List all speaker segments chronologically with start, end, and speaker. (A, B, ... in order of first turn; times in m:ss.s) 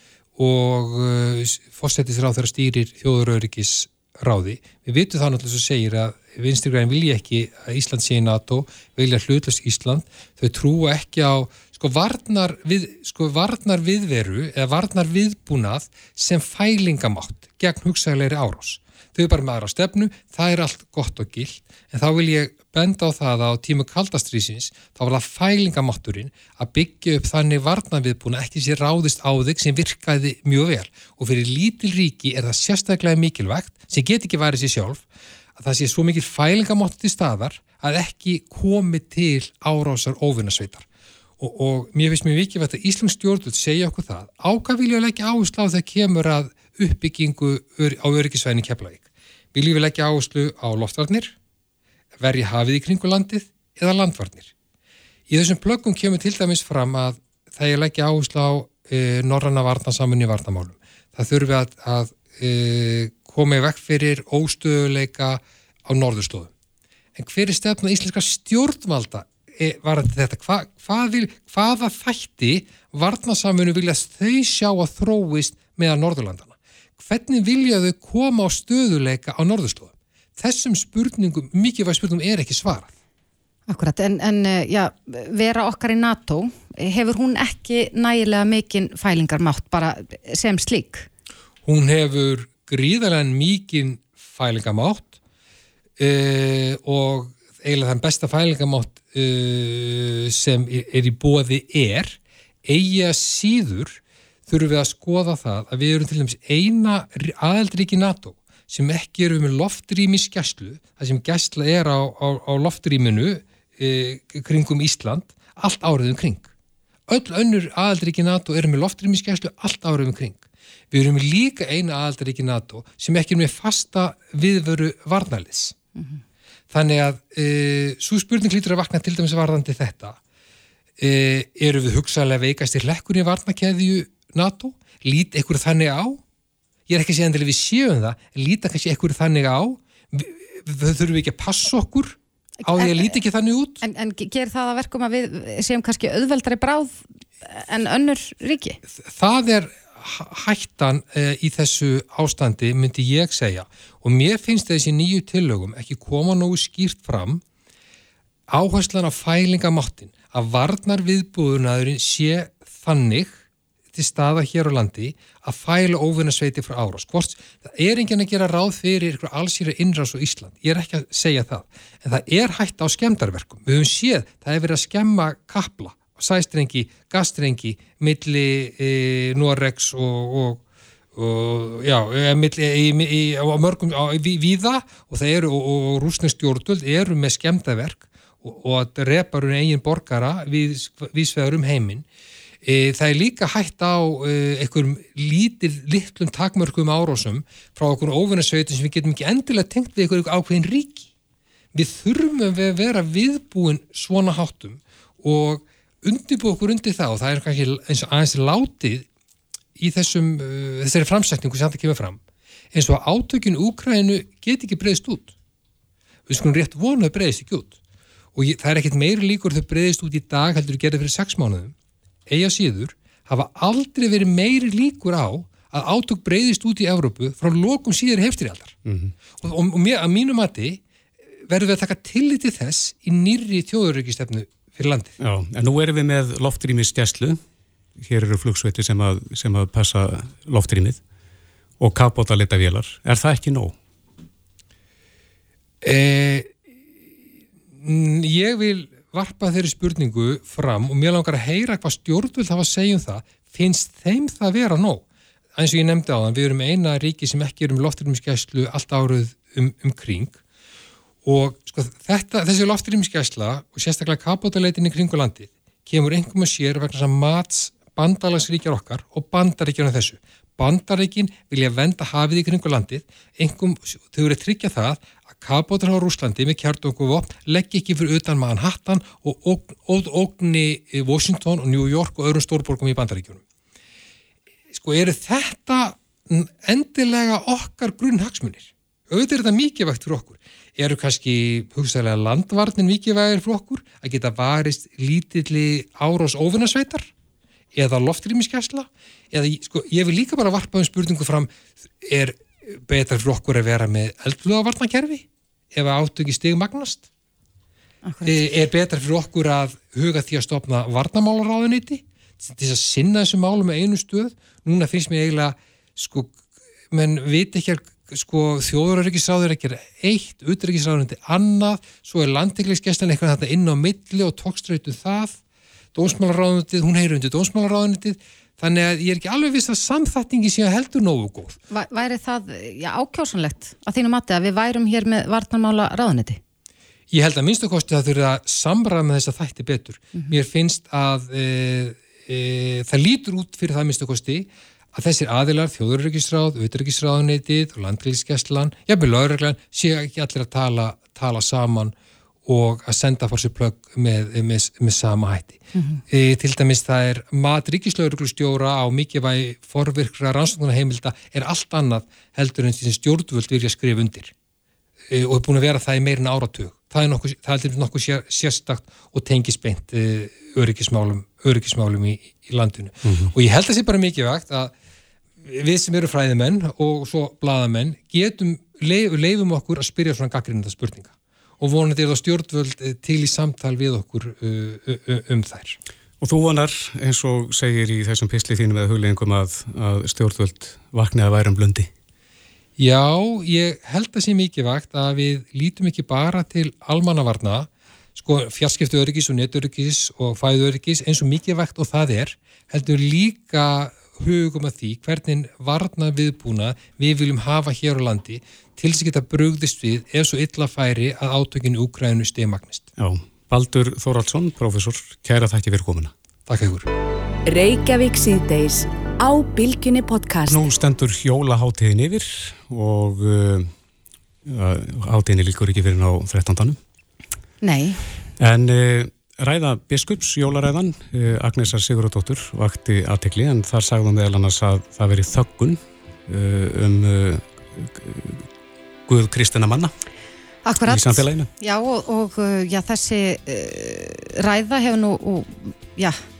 0:00.4-0:35.0 A
0:35.6-0:40.8 A
0:41.4-0:51.3 A
0:52.2-0:54.5 A
0:55.3-1:06.5 A
1:07.2-1:22.9 A
1:23.7-1:31.1 B
1:31.6-1:35.1 A
1:36.0-1:56.5 A
1:57.1-2:05.7 A
2:06.7-2:10.2 A
2:11.0-2:16.2 A
2:16.9-2:23.8 A
2:22.6-2:23.2 B
2:23.8-2:28.8 B
2:29.0-2:37.4 A
2:38.5-2:43.4 A
2:43.9-3:00.6 A
3:01.2-3:12.0 A
3:12.6-3:21.1 A
3:21.7-3:29.1 A
3:29.8-3:32.2 A
3:32.7-3:35.3 A
3:36.3-3:37.7 A
3:38.3-3:41.7 A
3:42.3-3:48.7 A
3:48.8-3:49.1 C
3:49.4-3:50.8 A
3:51.5-3:55.1 A
3:55.2-3:57.4 C
3:58.0-4:01.0 C
4:01.8-4:03.7 C
4:05.8-4:06.5 A
4:07.8-4:15.0 A
4:15.5-4:20.4 A
4:21.2-4:43.4 A
4:44.7-4:57.1 A
4:57.7-5:01.5 A
5:02.0-5:07.0 A
5:08.0-5:08.4 B
5:08.2-5:16.4 A
5:16.9-5:25.4 A
5:25.9-5:31.5 A
5:31.7-5:36.4 B
5:37.1-5:51.9 A
5:52.4-5:55.6 A
5:55.7-5:56.0 B
5:56.1-6:04.3 A
6:05.1-6:14.7 A
6:13.0-6:13.3 C
6:15.4-6:25.8 A
6:26.2-6:31.9 C
6:32.8-6:52.8 A
6:53.0-6:56.1 C
6:56.5-6:56.9 A
6:57.4-7:00.6 D
7:00.5-7:03.7 C
7:04.4-7:06.8 C
7:07.6-7:08.1 B
7:08.4-7:18.4 C
7:19.1-7:19.9 C
7:20.6-7:26.2 B
7:20.9-7:21.5 C